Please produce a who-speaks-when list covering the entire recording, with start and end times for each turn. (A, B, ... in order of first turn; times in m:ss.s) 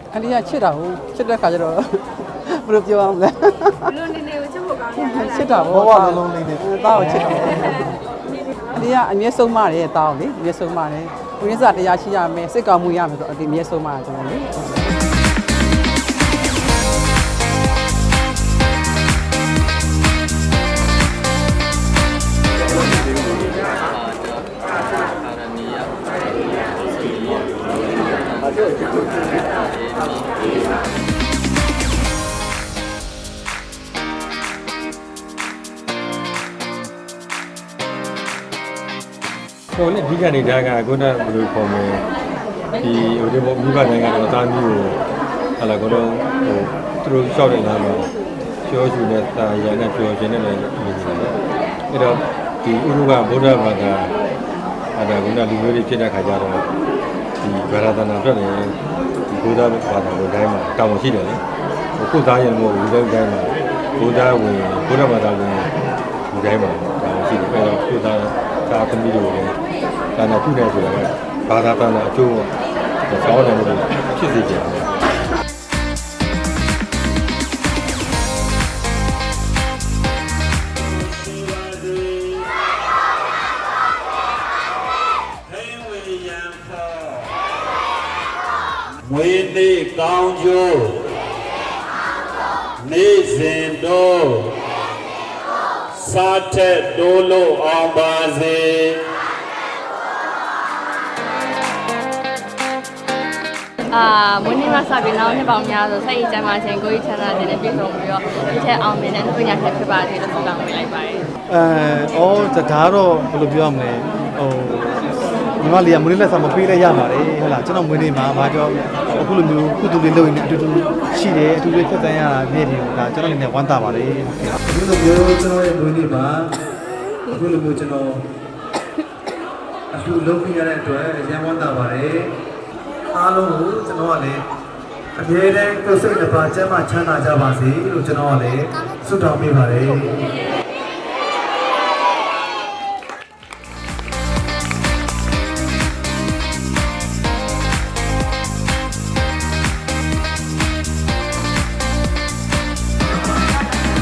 0:00.1-0:04.4 A
0:04.9-0:07.9 A
0:05.7-0:07.7 B
0:08.7-0:14.6 A
0:39.7-0:42.0 C
0:42.8-0:45.0 C
0:45.6-0:48.1 C
0:48.6-0:51.4 C
0:51.9-0:54.1 C
0:55.0-0:56.7 C
0:57.4-0:58.8 C
0:59.3-1:01.4 C
1:02.0-1:05.7 C
1:06.3-1:09.6 C
1:10.2-1:12.5 C
1:13.1-1:15.0 C
1:20.8-1:22.5 D
1:25.5-1:27.3 D
1:29.0-1:31.0 D
1:32.8-1:34.5 D
1:35.9-1:39.0 D
1:43.9-1:51.2 E
1:51.5-2:06.6 B
2:07.3-2:08.2 B
2:09.9-2:12.4 B
2:13.1-2:14.4 B
2:15.2-2:20.2 B